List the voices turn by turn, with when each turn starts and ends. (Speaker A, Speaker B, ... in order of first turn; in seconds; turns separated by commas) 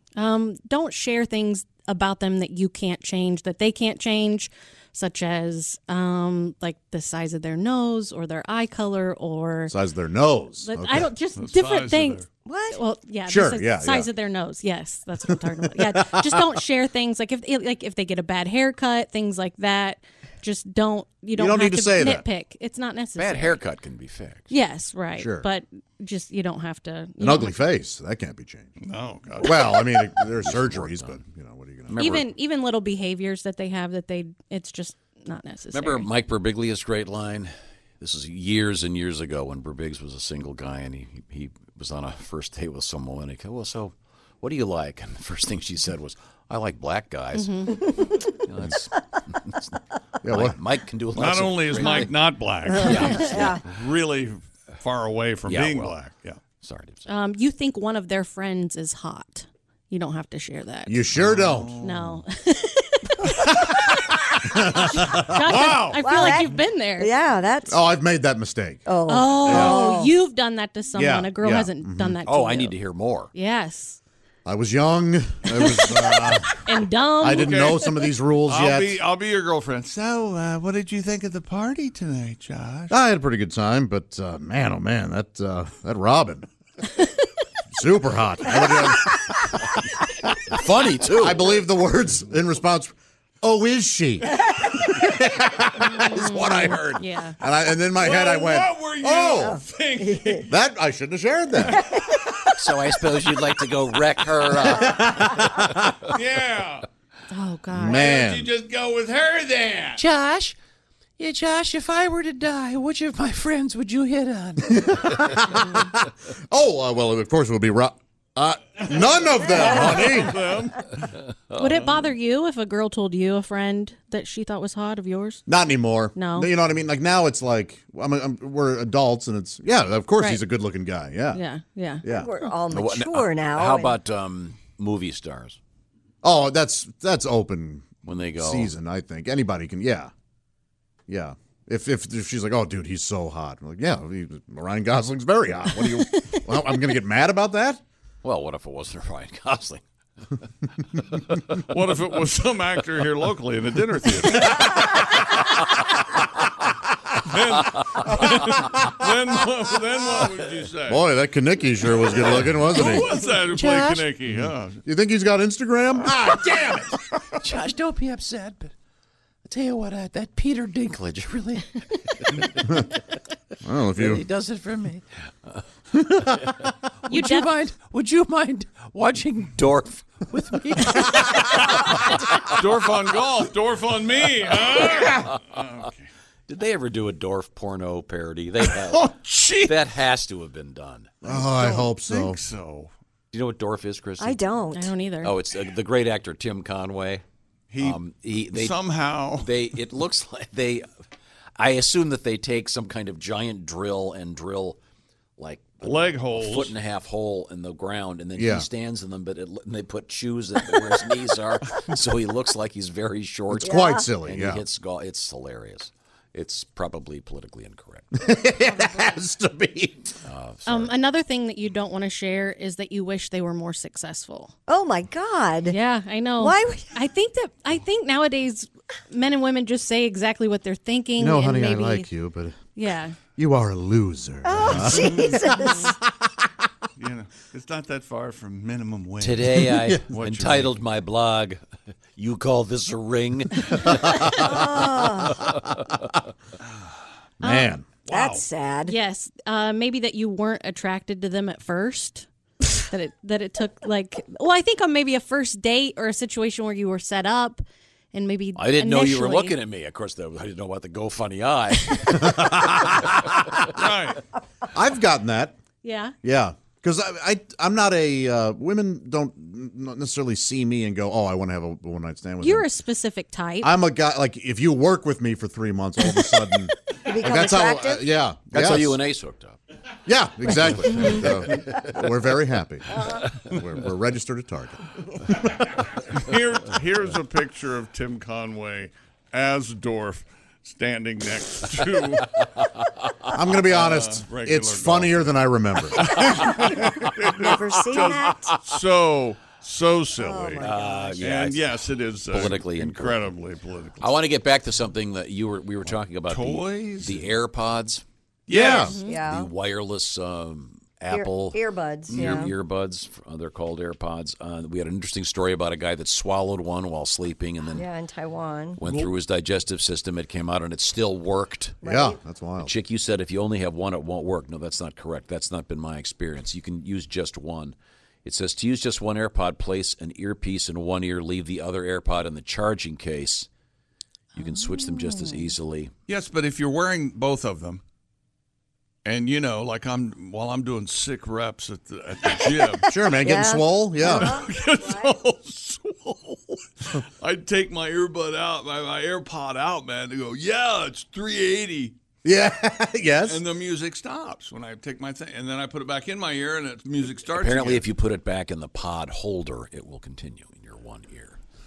Speaker A: 0.2-9.8, Speaker B: 9.7-11.1, Speaker A: 10.6-23.6, Speaker C: 11.4-12.3, Speaker D: 12.4-12.8, Speaker B: 13.3-14.1, Speaker B: 15.7-16.5, Speaker B: 21.4-22.2, Speaker E: 23.2-24.5, Speaker A: 24.5-27.5, Speaker B: 25.2-25.5, Speaker B: 27.2-28.7, Speaker C: 28.8-30.1, Speaker B: 29.4-32.2, Speaker E: 30.4-31.2, Speaker E: 31.9-32.3, Speaker A: 32.0-36.1, Speaker E: 35.7-52.1, Speaker A: 47.3-47.8, Speaker B: 50.2-50.6, Speaker C: 51.1-56.4, Speaker A: 51.8-52.1, Speaker D: 52.7-53.6, Speaker E: 52.7-53.6, Speaker E: 55.5-56.0, Speaker E: 56.6-57.1, Speaker A: 57.1-61.0, Speaker B: 60.9-61.8, Speaker C: 61.2-62.2, Speaker A: 61.8-67.2, Speaker B: 64.6-65.2, Speaker C: 65.5-66.3, Speaker D: 65.9-67.8, Speaker B: 67.7-68.9, Speaker D: 68.9-70.1, Speaker A: 69.1-72.8, Speaker B: 69.4-69.8, Speaker B: 70.9-72.2, Speaker E: 72.3-73.3, Speaker A: 73.3-74.0, Speaker B: 74.5-76.5, Speaker A: 76.6-77.5, Speaker B: 77.2-79.0, Speaker C: 77.3-77.8, Speaker C: 78.5-83.0, Speaker B: 82.9-86.5, Speaker B: 87.7-89.6, Speaker E: 90.5-91.4, Speaker B: 91.1-99.6, Speaker A: 95.8-97.4, Speaker C: 98.0-100.5, Speaker D: 99.4-100.5, Speaker B: 100.4-101.8, Speaker D: 101.6-102.8, Speaker E: 102.6-105.9, Speaker B: 104.7-105.9, Speaker C: 106.1-106.9, Speaker A: 107.3-108.0, Speaker B: 107.7-108.5, Speaker C: 107.9-110.0, Speaker E: 110.0-110.6, Speaker E: 111.2-115.5, Speaker B: 114.6-120.5, Speaker C: 119.3-121.1, Speaker A: 121.5-125.4, Speaker B: 125.5-131.4, Speaker A: 126.1-126.5, Speaker A: 130.2-130.4, Speaker A: 131.3-132.0, Speaker B: 132.0-132.3, Speaker D: 132.1-134.0, Speaker E: 132.7-135.6, Speaker B: 136.2-140.1, Speaker E: 138.0-138.7, Speaker B: 141.1-147.8, Speaker E: 148.2-149.8, Speaker E: 151.1-151.6, Speaker C: 151.7-154.8, Speaker B: 154.6-155.2, Speaker C: 157.2-161.0, Speaker B: 160.9-163.2, Speaker C: 162.2-164.8, Speaker E: 162.8-164.1, Speaker B: 164.8-167.1, Speaker E: 167.4-168.7, Speaker E: 169.4-172.9, Speaker B: 173.6-174.2, Speaker E: 173.9-182.3, Speaker A: 177.1-177.5, Speaker C: 182.5-186.1, Speaker E: 186.5-189.1, Speaker C: 188.7-189.8, Speaker E: 189.7-191.1, Speaker B: 191.2-192.4, Speaker C: 191.3-192.9, Speaker E: 193.3-194.4, Speaker D: 194.2-194.9, Speaker A: 194.7-195.3, Speaker E: 195.2-197.2, Speaker C: 197.7-199.6, Speaker E: 197.8-198.8, Speaker E: 199.4-200.9, Speaker E: 201.6-204.8, Speaker E: 205.4-218.1, Speaker C: 205.8-206.8, Speaker B: 208.3-208.7, Speaker B: 213.5-214.7, Speaker D: 213.6-214.1, Speaker B: 218.1-220.1, Speaker E: 220.2-220.9, Speaker A: 220.7-224.5, Speaker D: 224.7-225.8, Speaker A: 225.7-232.1, Speaker D: 226.4-226.9, Speaker B: 231.2-232.6, Speaker A: 232.7-233.2, Speaker B: 233.4-235.3, Speaker D: 234.4-236.0, Speaker C: 234.7-235.1, Speaker C: 237.0-240.8, Speaker E: 239.2-241.6, Speaker B: 239.6-240.1, Speaker E: 242.1-245.6, Speaker B: 243.9-244.5, Speaker D: 244.3-245.4, Speaker B: 247.4-248.1, Speaker A: 247.4-247.8, Speaker D: 248.1-249.0, Speaker C: 248.1-248.4, Speaker A: 248.9-252.3, Speaker A: 252.8-259.6, Speaker E: 258.6-262.7, Speaker B: 262.2-263.3, Speaker C: 263.8-264.2, Speaker B: 264.7-265.6, Speaker A: 265.8-266.1, Speaker B: 266.2-272.7, Speaker A: 272.4-273.7, Speaker B: 273.6-279.0, Speaker D: 277.1-278.1, Speaker E: 278.5-279.6, Speaker B: 280.1-285.6, Speaker E: 281.0-281.8, Speaker C: 286.0-292.3, Speaker B: 293.3-296.2, Speaker C: 293.7-295.4, Speaker C: 296.0-300.6, Speaker D: 296.3-298.6, Speaker D: 300.1-301.2, Speaker E: 300.6-303.3, Speaker C: 301.2-304.2, Speaker E: 304.0-308.0, Speaker C: 306.3-307.3, Speaker C: 308.5-309.0, Speaker B: 308.5-308.9, Speaker A: 308.8-309.2, Speaker D: 309.0-309.5, Speaker E: 309.2-317.9, Speaker D: 311.1-312.6, Speaker C: 312.1-312.4, Speaker D: 317.7-318.8, Speaker E: 318.8-321.8, Speaker C: 318.8-319.1, Speaker D: 321.8-322.2, Speaker B: 321.8-322.8, Speaker E: 322.6-333.5, Speaker E: 334.4-335.9, Speaker A: 334.4-335.5, Speaker C: 336.1-337.8, Speaker C: 339.1-342.9, Speaker B: 342.9-344.5, Speaker D: 343.2-345.2, Speaker C: 344.2-352.0, Speaker B: 352.2-353.4, Speaker C: 353.3-357.9, Speaker E: 357.4-361.4